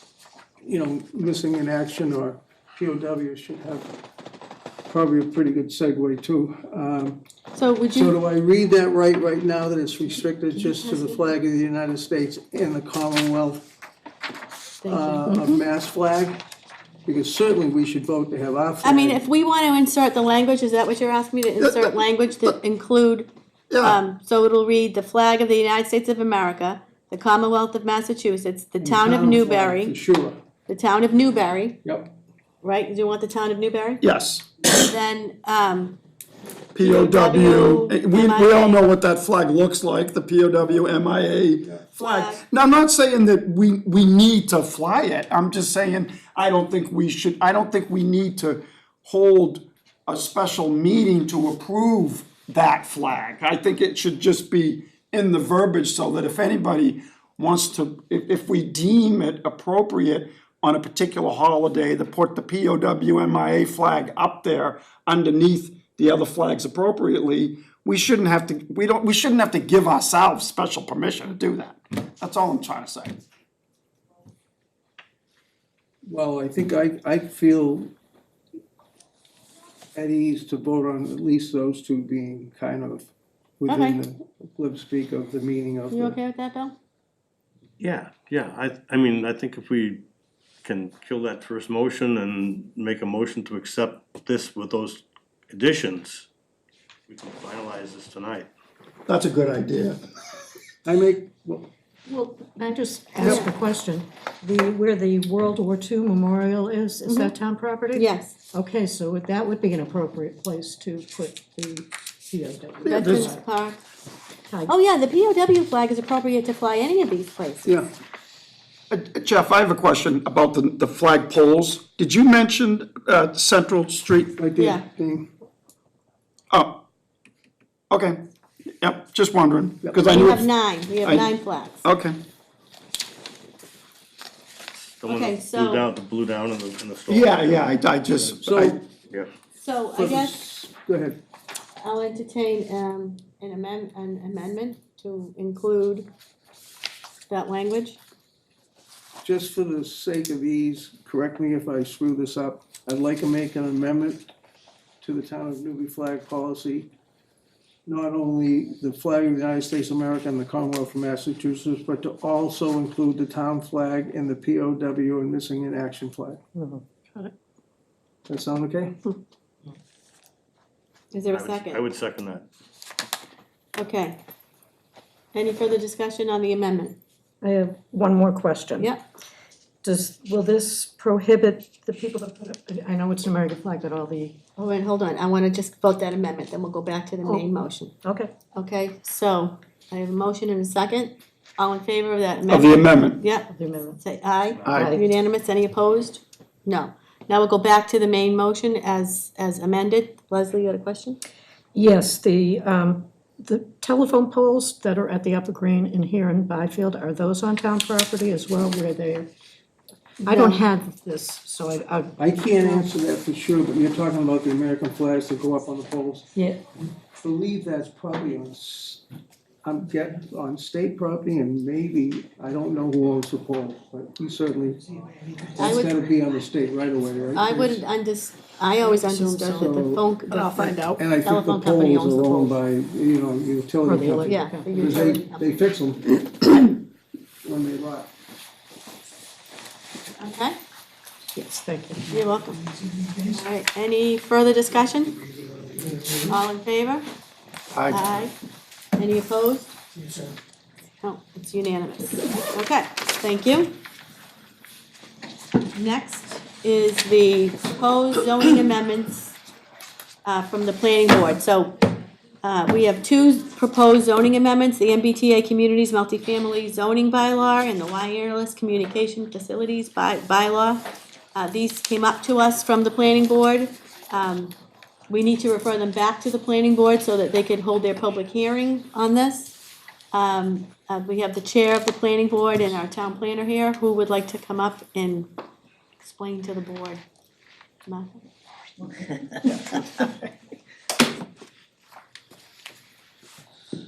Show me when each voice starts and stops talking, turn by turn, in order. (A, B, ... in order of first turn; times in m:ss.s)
0:00.6-0:03.9 A
0:04.9-0:07.2 A
0:07.5-0:08.1 B
0:07.9-0:13.7 A
0:10.6-0:11.2 B
0:14.8-0:15.2 B
0:14.8-0:16.4 A
0:15.3-0:15.6 C
0:17.0-0:19.2 A
0:18.8-0:23.3 B
0:21.6-0:22.5 D
0:23.7-0:24.0 D
0:23.8-0:30.0 B
0:28.8-0:30.4 A
0:30.7-0:31.8 B
0:31.8-0:32.1 A
0:32.6-0:34.0 B
0:34.0-0:34.7 D
0:34.6-0:36.0 B
0:36.7-1:13.2 D
0:36.8-0:38.8 B
0:42.0-0:42.4 B
1:16.0-1:17.9 A
1:19.9-1:26.2 A
1:23.7-1:24.0 B
1:25.9-1:26.7 B
1:27.8-1:30.0 E
1:30.6-1:36.3 E
1:37.1-1:38.5 E
1:39.1-1:40.0 D
1:40.8-1:41.7 A
1:42.1-1:53.4 C
1:47.0-1:47.3 B
1:47.9-1:48.4 B
1:52.8-1:53.3 D
1:52.8-1:53.8 B
1:54.7-1:57.7 B
1:58.9-2:04.4 D
2:04.4-2:05.3 A
2:04.6-2:04.8 B
2:06.5-2:06.8 D
2:07.9-2:08.2 D
2:08.8-2:12.2 D
2:10.1-2:11.8 B
2:15.0-2:18.4 E
2:15.0-2:15.8 B
2:17.1-2:18.8 D
2:18.4-2:18.8 A
2:19.6-2:20.4 B
2:20.0-2:21.2 A
2:21.8-2:26.1 B
2:27.3-2:28.0 B
2:29.2-2:34.3 A
2:35.0-2:36.9 A
2:37.8-2:46.4 A
2:46.5-2:46.8 C
2:48.3-2:49.0 A
2:51.1-2:51.8 B
2:51.2-2:52.5 E
2:53.8-2:54.2 B
2:55.3-2:57.0 B
2:57.4-2:58.9 C
2:58.8-2:59.0 B
2:59.8-3:04.4 C
3:04.6-3:07.9 B
3:08.0-3:08.3 C
3:08.5-3:13.5 B
3:12.5-3:13.2 D
3:13.5-3:14.0 C
3:14.0-3:21.2 B
3:14.7-3:15.0 C
3:21.7-3:29.3 C
3:30.2-3:32.8 C
3:30.2-3:30.6 B
3:32.2-3:36.3 A
3:36.3-3:36.6 C
3:37.2-3:39.0 A
3:39.6-3:44.8 A
3:45.5-3:47.8 A
3:45.6-3:46.0 B
3:47.3-3:52.4 B
3:49.0-3:49.7 C
3:49.5-3:50.1 A
3:50.3-3:50.9 C
3:50.9-3:56.7 A
3:53.8-3:54.8 C
3:54.2-3:55.5 B
3:57.4-3:58.1 A
4:00.2-4:00.6 B
4:01.3-4:02.2 C
4:02.1-4:02.6 B
4:03.3-4:05.2 B
4:06.2-4:07.1 B
4:07.7-4:08.1 D
4:07.9-4:08.3 B
4:09.0-4:09.7 B
4:11.0-4:13.8 B
4:15.7-4:19.4 B
4:20.2-4:21.8 B
4:22.4-4:34.6 B
4:35.1-4:39.6 B
4:40.1-4:45.3 B
4:46.0-4:47.0 B
4:47.8-4:48.2 B